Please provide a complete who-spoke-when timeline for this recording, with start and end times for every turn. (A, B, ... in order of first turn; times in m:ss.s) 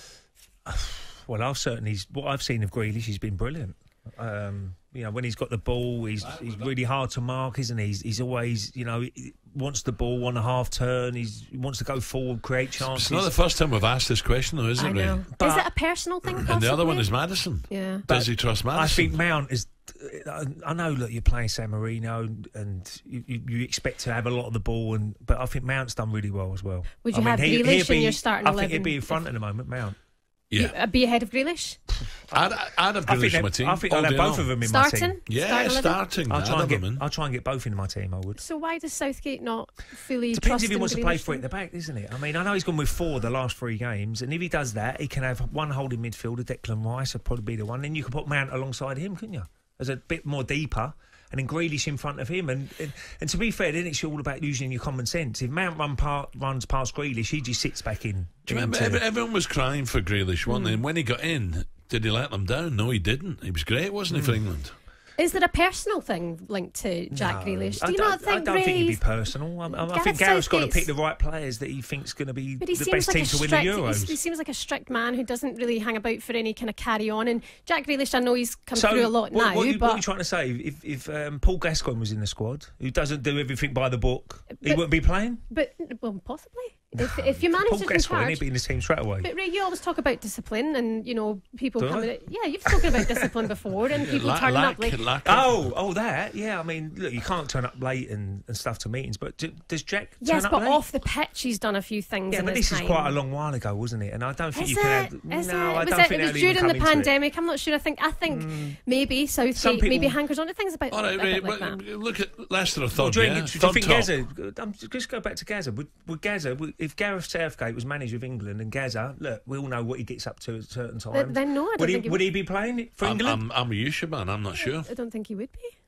0:00.6-0:13.3 A
0:12.8-0:15.2 B
0:14.8-0:17.1 C
0:14.8-0:15.7 A
0:16.4-0:19.2 B
0:17.7-0:18.0 C
0:18.1-0:30.0 A
0:27.0-0:29.2 C
0:30.5-0:30.8 B
0:30.6-0:31.8 C
0:32.3-0:34.5 B
0:33.0-0:35.2 A
0:34.6-0:36.0 C
0:35.3-0:37.0 B
0:36.3-0:38.4 A
0:38.4-0:41.4 C
0:40.3-0:59.0 A
0:58.5-1:04.7 B
1:00.5-1:00.8 C
1:04.1-1:04.4 A
1:05.2-1:10.9 C
1:07.1-1:14.2 A
1:12.6-1:20.0 C
1:18.7-1:25.4 A
1:24.5-1:24.8 C
1:25.5-1:28.4 C
1:26.9-1:29.3 A
1:29.2-1:35.0 C
1:31.8-1:32.1 A
1:32.6-1:33.3 A
1:33.9-1:35.7 B
1:35.2-1:40.8 A
1:40.2-1:43.2 C
1:42.3-1:47.1 A
1:44.5-1:51.8 C
1:48.3-1:48.8 A
1:49.5-1:50.2 A
1:50.9-1:54.1 B
1:52.9-2:03.4 A
2:01.1-2:02.2 C
2:03.0-2:04.9 B
2:04.5-2:05.7 C